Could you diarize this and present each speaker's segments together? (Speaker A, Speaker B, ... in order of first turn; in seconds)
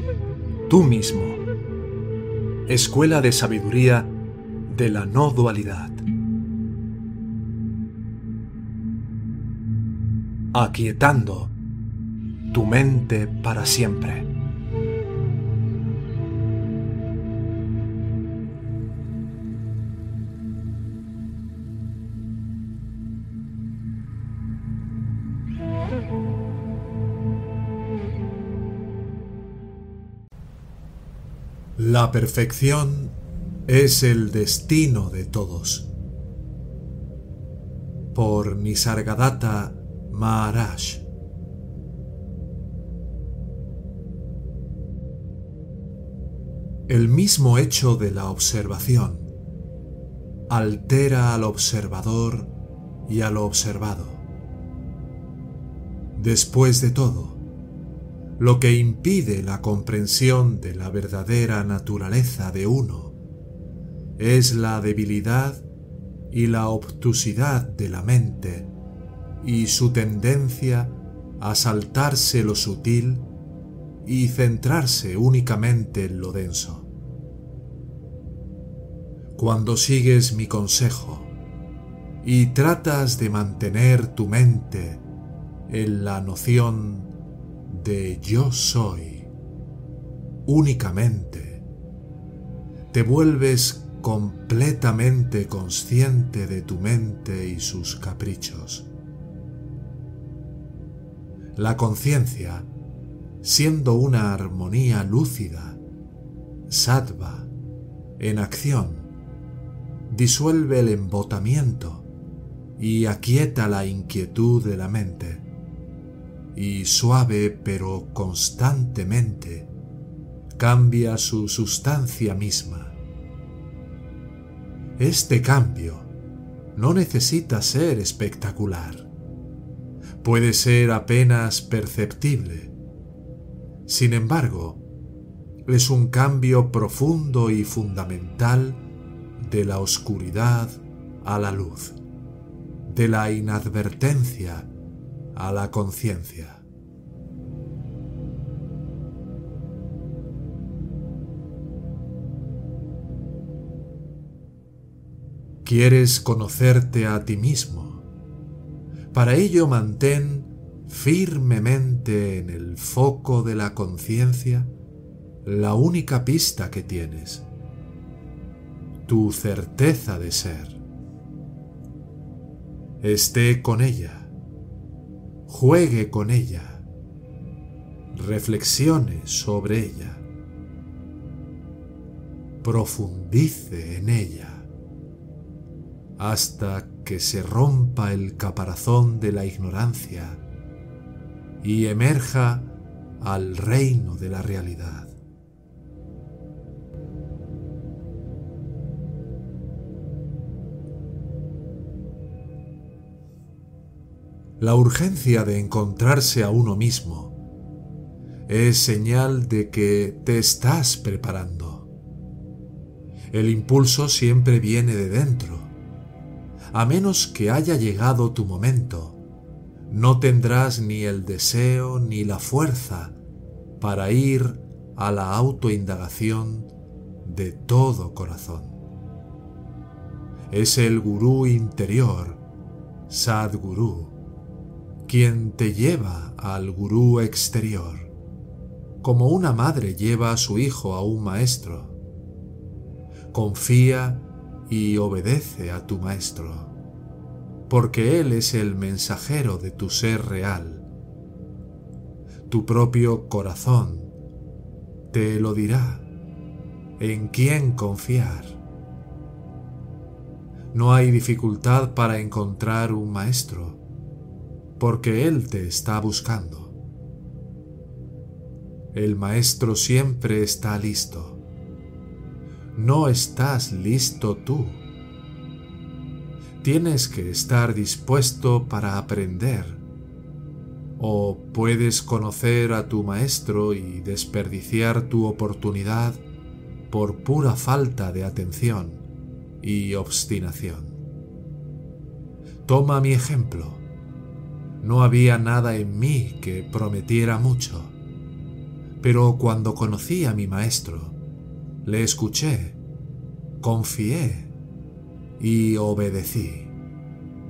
Speaker A: 0.7-1.4, 2.7-4.1, 4.7-6.0, 10.5-11.5, 12.5-14.3, 31.8-33.1, 33.7-35.9, 38.1-41.0, 46.9-49.3, 50.5-52.5, 53.1-54.2, 56.1-57.4, 58.4-63.1, 64.2-65.6, 66.3-68.7, 69.4-73.3, 74.0-76.9, 79.3-81.3, 82.2-85.0, 85.7-87.1, 87.7-89.3, 90.5-91.6, 92.9-98.9, 101.5-102.7, 103.4-105.8, 106.7-107.5, 108.2-109.1, 110.1-112.0, 112.8-115.4, 116.5-119.7, 120.6-123.0, 125.0-126.1, 126.7-129.1, 130.2-132.7, 133.9-134.8, 135.7-138.8, 139.4-141.9, 142.9-144.7, 145.3-146.6, 155.6-158.0, 159.1-164.7, 165.4-167.5, 169.1-170.8, 173.0-174.3, 175.5-176.8, 178.1-180.2, 182.6-184.7, 186.2-190.4, 191.6-195.1, 204.6-207.3, 208.5-211.9, 213.3-215.7, 216.7-219.2, 219.9-223.2, 223.8-226.7, 227.2-228.8, 230.5-232.4, 233.1-234.2, 235.1-238.1, 239.0-241.9, 243.3-246.7, 247.7-250.8, 252.5-254.1, 255.1-256.1, 257.0-258.6, 260.7-263.8, 264.8-266.7, 268.9-271.4, 272.7-274.8, 276.6-279.8, 281.0-286.2, 286.9-289.0, 289.6-291.0, 292.6-293.8, 294.8-297.9, 299.0-301.2, 301.8-302.8, 303.6-304.5, 305.4-306.7